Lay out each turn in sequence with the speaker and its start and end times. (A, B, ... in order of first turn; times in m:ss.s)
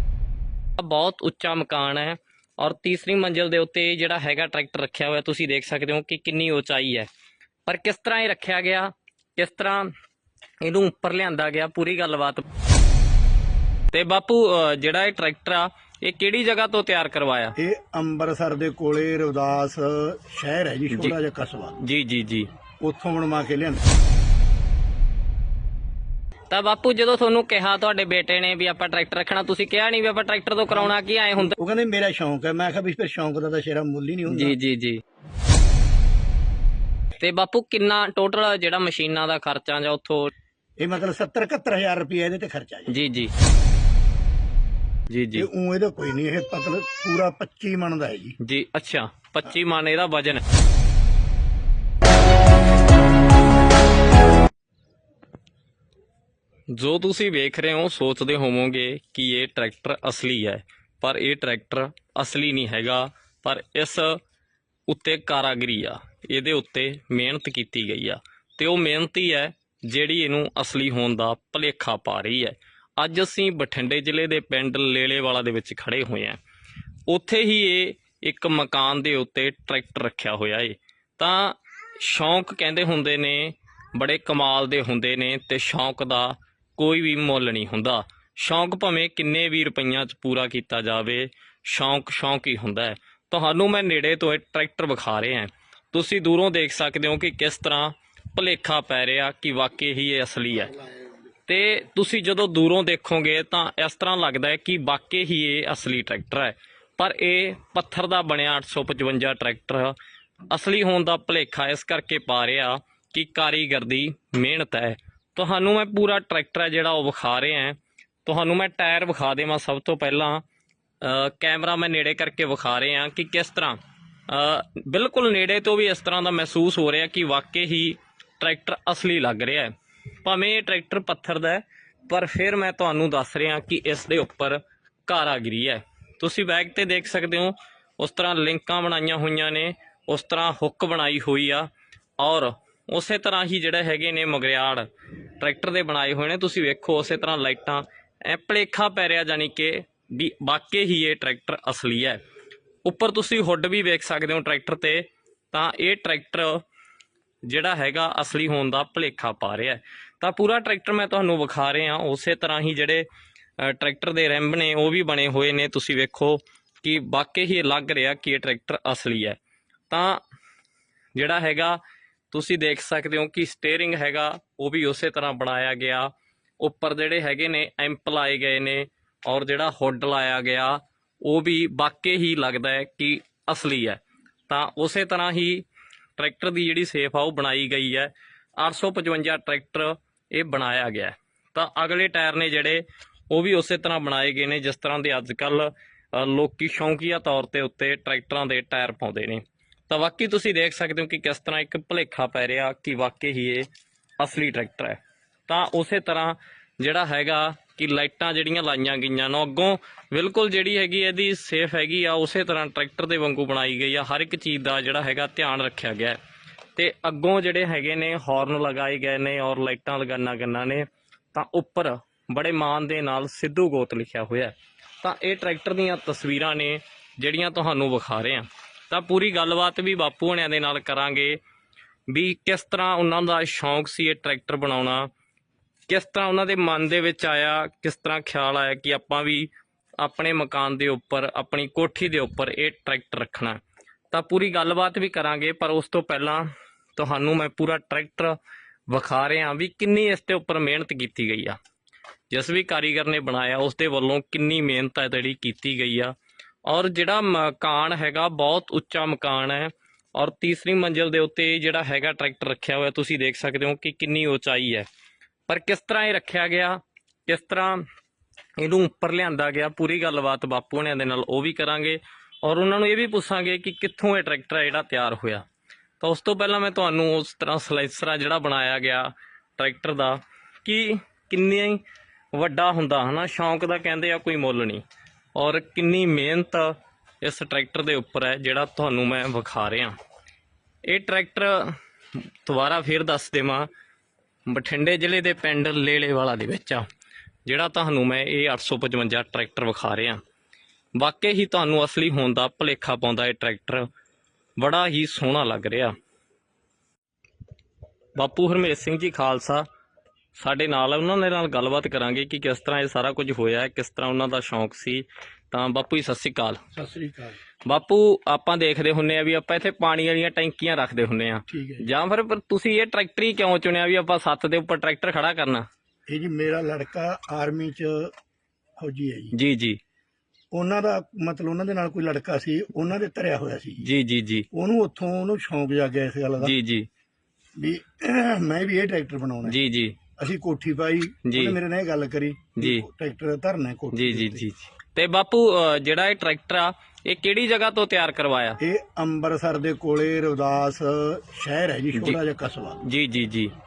0:00.8-0:07.1 A
0:07.6-0:09.9 A
0:10.6-0:12.4 A
0:13.9-0:17.5 A
0:17.6-0:21.8 B
0:21.8-0:22.5 A
0:22.8-0:23.8 B
0:26.5-0:31.5 A
0:30.7-0:34.6 B
0:34.3-0:35.0 A
0:37.2-0:40.3 A
0:40.8-0:42.9 B
0:42.9-0:43.3 A
0:45.1-0:45.5 A
0:45.3-0:48.4 B
0:48.4-0:50.4 A
0:56.7-1:04.2 A
1:04.9-1:16.4 A
1:17.1-1:40.8 A
1:41.5-1:49.9 A
1:50.5-2:00.4 A
2:01.0-2:03.8 A
2:04.3-2:09.7 A
2:10.2-2:21.7 A
2:22.2-2:24.9 A
2:25.4-2:32.2 A
2:32.8-2:36.6 A
2:37.4-2:43.0 A
2:43.6-2:49.4 A
2:49.9-2:50.2 A
2:51.1-2:51.8 A
2:52.3-3:05.6 A
3:06.2-3:23.7 A
3:24.2-3:36.2 A
3:36.8-3:51.4 A
3:52.1-3:55.1 A
3:55.9-4:03.6 A
4:04.1-4:08.4 A
4:08.9-4:11.6 A
4:12.3-4:16.1 A
4:16.7-4:24.8 A
4:25.5-4:27.8 A
4:28.6-4:35.4 A
4:36.0-4:41.8 A
4:42.3-4:44.8 A
4:45.3-4:49.9 A
4:50.9-4:53.7 A
4:54.5-4:56.8 A
4:57.4-5:00.2 A
5:00.9-5:03.9 A
5:04.6-5:05.9 A
5:08.2-5:09.6 A
5:10.4-5:16.6 A
5:16.7-5:17.4 B
5:17.6-5:25.6 A
5:21.5-5:21.8 B
5:26.1-5:28.1 B
5:28.8-5:29.3 B
5:29.3-5:29.8 A
5:30.5-5:33.9 B
5:33.8-5:34.5 A
5:34.5-5:36.5 B
5:36.4-5:36.9 A
5:37.6-5:39.6 B
5:39.4-5:40.0 A
5:40.2-5:44.5 B
5:41.2-5:41.6 A
5:42.6-5:42.8 A
5:43.9-5:48.6 A
5:48.6-5:52.8 B
5:52.8-5:53.5 A